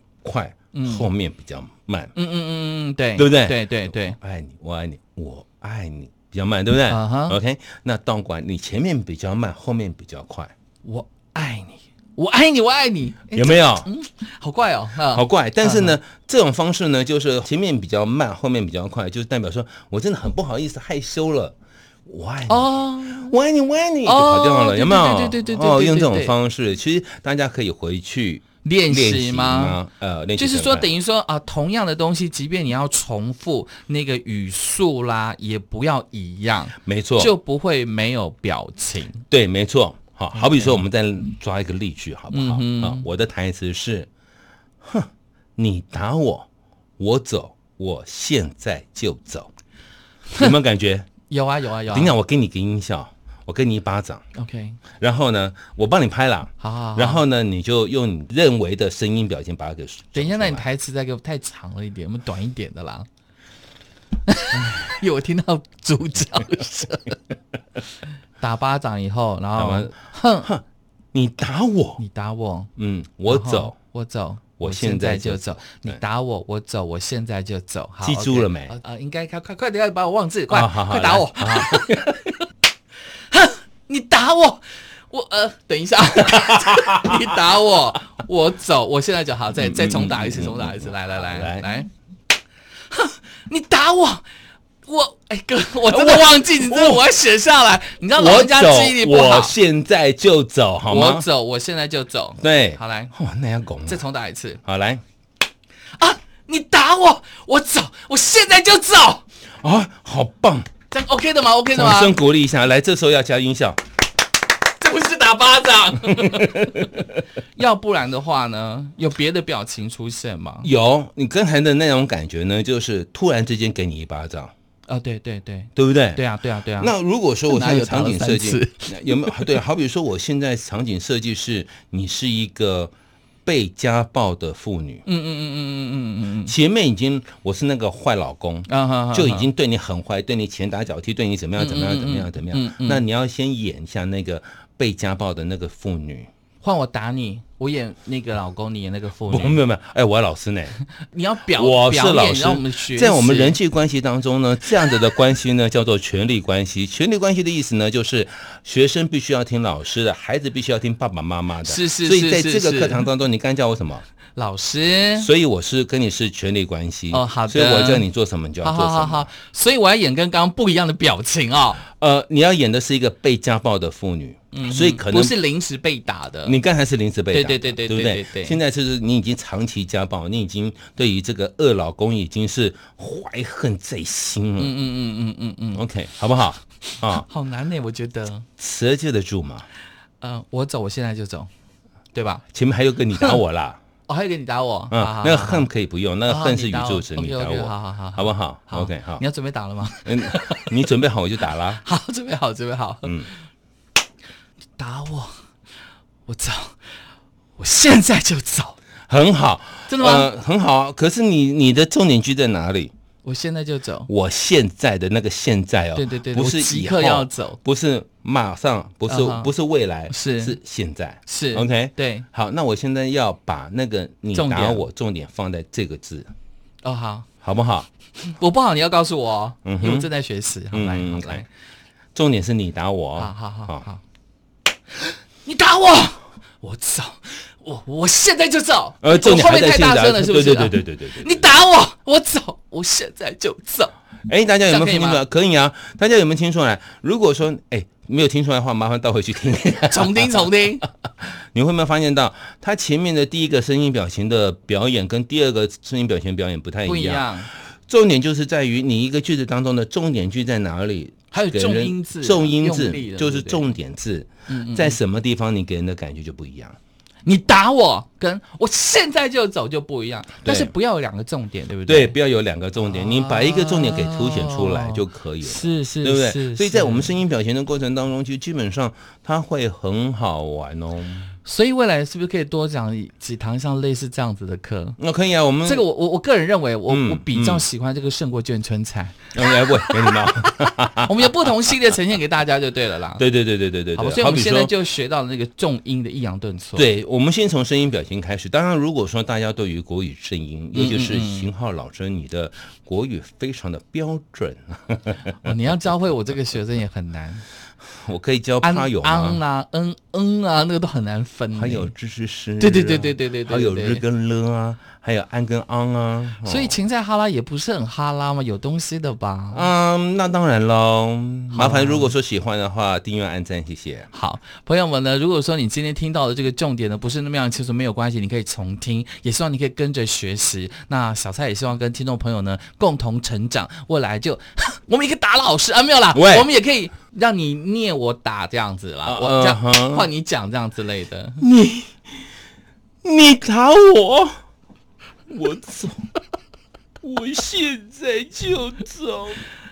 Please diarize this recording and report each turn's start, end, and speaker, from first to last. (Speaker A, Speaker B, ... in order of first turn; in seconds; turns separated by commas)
Speaker A: 0.2-2.1, Speaker B: 0.7-1.1, Speaker B: 2.1-4.2, Speaker A: 3.2-10.5, Speaker B: 6.9-7.4, Speaker B: 10.8-16.0, Speaker A: 13.3-13.9, Speaker A: 15.1-30.9, Speaker B: 22.5-23.4, Speaker B: 24.0-26.3, Speaker B: 28.6-29.8, Speaker B: 30.4-39.2, Speaker A: 36.9-37.3, Speaker A: 39.3-44.1, Speaker B: 40.4-40.8, Speaker B: 42.3-43.1, Speaker A: 44.8-46.5, Speaker A: 47.0-49.5, Speaker A: 50.4-51.1, Speaker B: 51.3-52.1, Speaker A: 51.9-54.2, Speaker B: 54.4-54.8, Speaker A: 55.0-60.7, Speaker B: 56.6-57.2, Speaker B: 60.1-63.1, Speaker B: 64.3-67.2, Speaker B: 68.4-70.5, Speaker A: 69.6-70.6, Speaker A: 71.1-72.0, Speaker B: 72.0-72.7, Speaker A: 72.8-73.8, Speaker B: 73.3-82.0, Speaker A: 74.6-76.0, Speaker A: 78.0-78.8, Speaker A: 80.5-82.3, Speaker B: 83.3-91.9, Speaker A: 86.4-87.4, Speaker A: 89.6-91.7, Speaker B: 92.9-94.2, Speaker B: 94.9-99.5, Speaker A: 95.9-97.1, Speaker A: 98.1-101.3, Speaker B: 100.9-103.1, Speaker A: 102.4-104.0, Speaker B: 103.9-104.6, Speaker A: 104.6-105.0, Speaker B: 106.0-109.2, Speaker A: 109.6-110.7, Speaker B: 110.9-112.2, Speaker A: 111.7-113.8, Speaker B: 114.8-116.9, Speaker A: 116.1-117.1, Speaker B: 117.5-120.7, Speaker A: 120.6-124.5, Speaker B: 124.9-126.9, Speaker A: 125.8-126.2, Speaker A: 126.8-132.9, Speaker B: 127.5-129.6, Speaker A: 133.5-135.1, Speaker B: 135.1-136.5, Speaker A: 136.4-146.3, Speaker B: 138.7-139.5, Speaker B: 141.6-143.0, Speaker B: 146.6-149.6, Speaker A: 149.3-150.8, Speaker B: 151.0-153.6, Speaker A: 151.5-164.1, Speaker B: 161.7-163.0, Speaker B: 164.3-165.3, Speaker A: 165.2-169.3, Speaker B: 167.1-168.1, Speaker B: 168.6-171.8, Speaker A: 172.0-175.4, Speaker B: 174.5-176.6, Speaker A: 176.4-184.8, Speaker B: 177.3-178.6, Speaker B: 184.6-185.8, Speaker A: 185.7-187.2, Speaker B: 187.1-188.5, Speaker A: 188.6-189.7, Speaker B: 190.2-191.5, Speaker B: 192.1-192.4, Speaker A: 192.5-193.8, Speaker B: 194.1-195.7, Speaker A: 194.9-199.2, Speaker B: 196.3-200.7, Speaker A: 200.0-201.8, Speaker B: 201.8-203.1, Speaker A: 203.0-203.3, Speaker B: 204.8-205.4, Speaker B: 206.3-206.8, Speaker B: 207.6-208.8, Speaker A: 209.1-212.9, Speaker B: 209.9-210.3, Speaker B: 213.2-214.1, Speaker A: 214.1-226.3, Speaker B: 216.0-217.6, Speaker B: 219.1-219.5, Speaker B: 220.1-220.6, Speaker B: 221.3-222.3, Speaker B: 224.3-224.8, Speaker B: 226.8-227.3, Speaker A: 227.4-227.9, Speaker B: 228.2-231.5, Speaker A: 229.7-230.1, Speaker A: 230.7-231.4, Speaker A: 232.2-233.9, Speaker B: 233.2-234.0, Speaker B: 235.4-243.9, Speaker A: 239.0-241.5, Speaker A: 244.3-250.6, Speaker B: 244.7-245.2, Speaker B: 249.9-250.8, Speaker A: 251.2-266.8, Speaker B: 256.9-257.5, Speaker B: 261.3-263.7, Speaker B: 264.5-265.0, Speaker B: 267.2-272.2, Speaker A: 270.4-270.7, Speaker A: 271.9-281.4, Speaker B: 272.8-277.1, Speaker B: 281.4-285.0, Speaker A: 285.0-285.9, Speaker B: 285.6-289.9, Speaker A: 286.9-287.7, Speaker A: 289.3-291.3, Speaker B: 291.0-293.2, Speaker A: 293.2-294.7, Speaker B: 293.9-296.9, Speaker A: 296.8-305.5, Speaker B: 300.7-301.5, Speaker B: 305.4-307.4, Speaker A: 308.0-309.4, Speaker B: 308.6-311.9, Speaker A: 311.5-316.8, Speaker B: 312.6-314.0, Speaker B: 316.4-319.7, Speaker A: 319.5-324.1, Speaker B: 321.5-322.1, Speaker B: 324.1-341.4, Speaker A: 336.1-336.5, Speaker A: 339.1-340.1, Speaker A: 341.4-342.0, Speaker A: 343.0-344.4, Speaker A: 345.3-346.1, Speaker A: 347.0-349.5